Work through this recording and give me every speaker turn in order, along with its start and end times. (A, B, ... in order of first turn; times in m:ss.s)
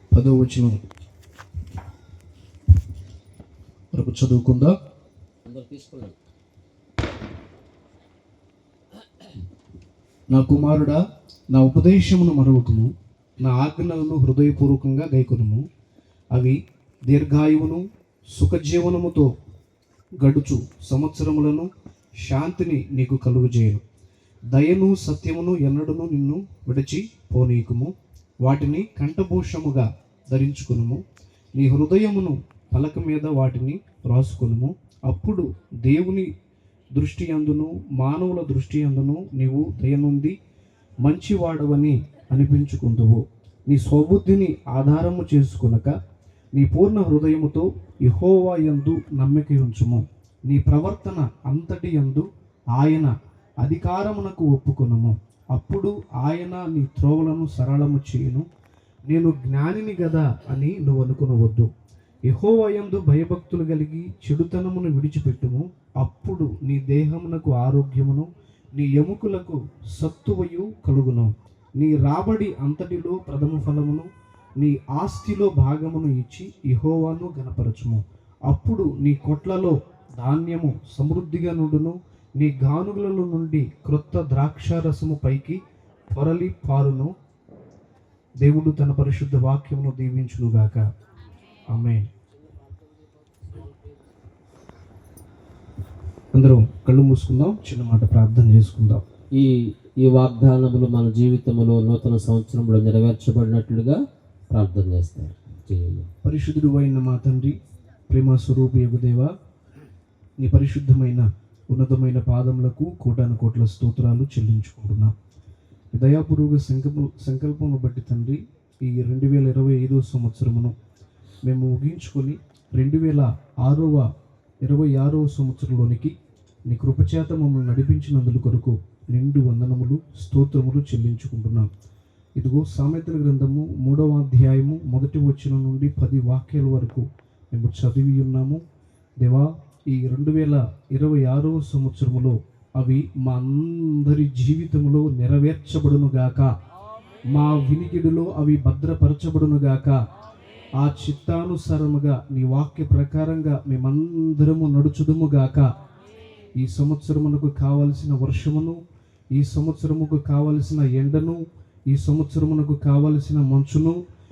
0:00.1-0:00.8 A
0:03.9-0:04.7 A
0:05.5-0:06.2 B
0:10.3-0:11.0 A
0:11.5-0:15.6 A
0:17.1-0:19.3 A
0:20.2-0:21.7 A
0:22.2-0:23.8 A
0:24.5-0:31.0 A
0:31.6-0:36.3 A
0:37.0-0:40.4 A
0:41.0-0:45.9 A
0:46.6-0:58.5 A
0:59.1-1:01.7 A
1:02.3-1:27.1 A
1:28.4-1:30.8 A
1:31.7-1:32.1 A
1:32.4-1:34.1 B
1:36.3-1:39.0 A
1:39.4-1:46.1 B
1:46.2-1:47.6 A
1:48.1-1:49.3 A
1:50.4-1:55.1 A
1:55.9-2:00.8 A
2:01.5-2:04.1 A
2:04.6-2:06.1 A
2:06.7-2:11.7 A
2:12.4-2:18.6 A
2:19.2-2:26.5 A
2:27.3-2:30.0 A
2:30.8-2:35.7 A
2:36.6-2:38.8 A
2:39.3-2:44.0 A